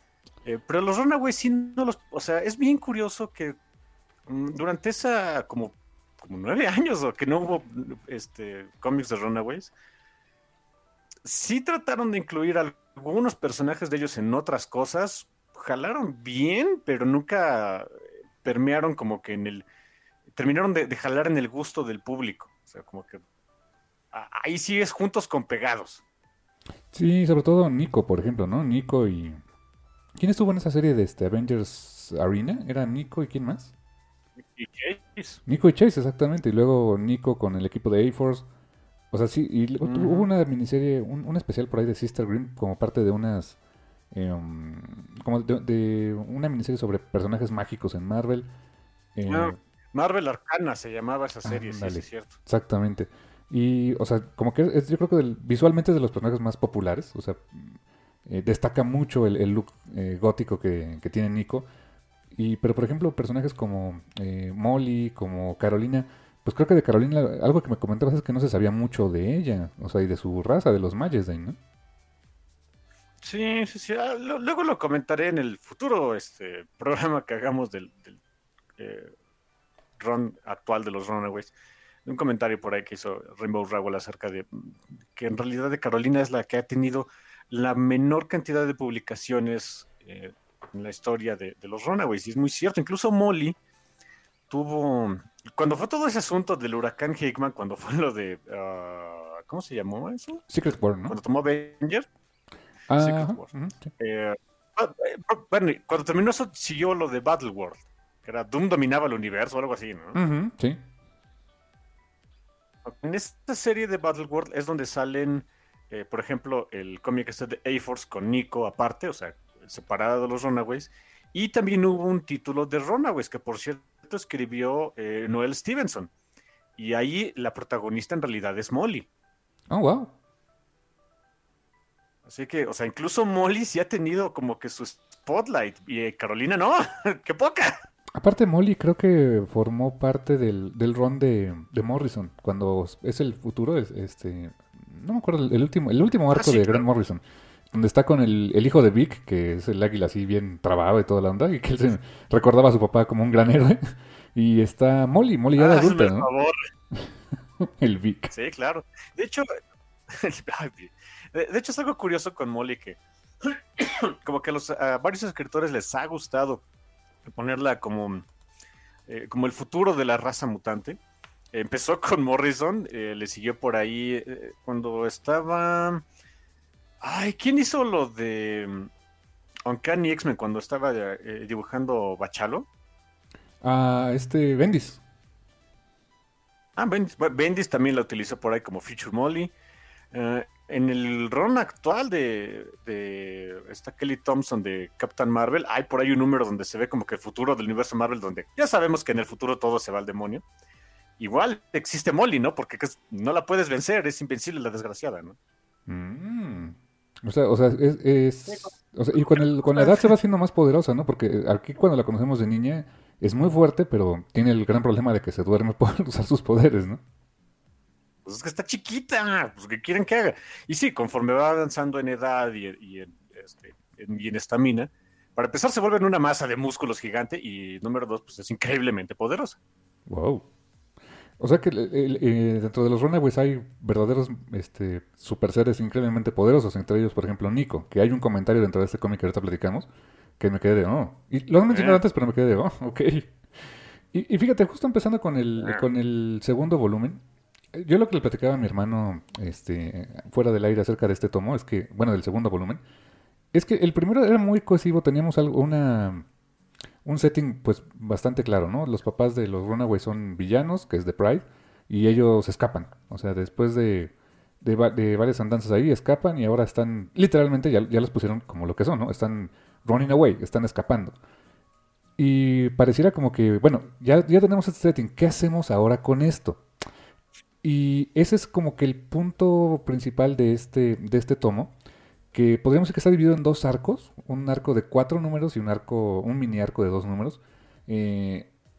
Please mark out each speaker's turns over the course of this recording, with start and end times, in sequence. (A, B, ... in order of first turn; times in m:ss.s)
0:00.4-0:03.6 A
0:04.3-0:09.7 A
0:11.2-0:19.7 A
0:20.4-0:23.2 A
0:24.1-0:26.0 A
0:26.9-0:29.4 B
0:30.2-0:33.7 B
0:34.4-0:35.4 A
0:35.5-0:38.5 B
0:39.1-0:43.6 B
0:39.8-0:40.3 A
0:44.1-0:48.5 B
0:49.2-0:49.6 B
0:49.3-0:52.3 A
0:51.4-1:01.7 B
1:02.3-1:11.6 B
1:13.2-1:18.2 A
1:18.8-1:19.1 A
1:20.0-1:21.5 A
1:22.1-1:33.6 A
1:34.5-1:40.4 A
1:40.5-1:41.2 B
1:41.1-1:42.1 A
1:42.9-1:43.9 B
1:43.0-1:50.2 A
1:50.1-1:50.8 B
1:52.9-2:06.1 A
2:06.8-2:09.1 A
2:09.7-2:10.1 B
2:12.3-2:17.8 A
2:18.2-2:36.3 B
2:26.3-2:26.8 A
2:35.6-2:36.6 A
2:36.9-2:38.3 B
2:38.3-2:46.6 A
2:47.4-2:48.3 A
2:49.1-2:51.0 A
2:51.5-2:56.0 A
2:57.0-2:58.9 A
2:59.7-3:02.7 A
3:03.6-3:05.0 B
3:06.8-3:09.5 A
3:10.1-3:20.4 A
3:21.2-3:25.4 A
3:25.9-3:37.0 B
3:28.5-3:28.7 A
3:29.3-3:30.1 A
3:38.3-3:49.6 A
3:50.1-3:50.4 B
3:51.4-3:59.9 B
4:00.4-4:07.2 B
4:01.7-4:02.0 A
4:05.6-4:05.9 A
4:07.7-4:12.8 B
4:13.5-4:16.3 B
4:17.0-4:31.2 B
4:32.2-4:36.6 B
4:37.6-4:41.7 B
4:42.3-4:48.5 B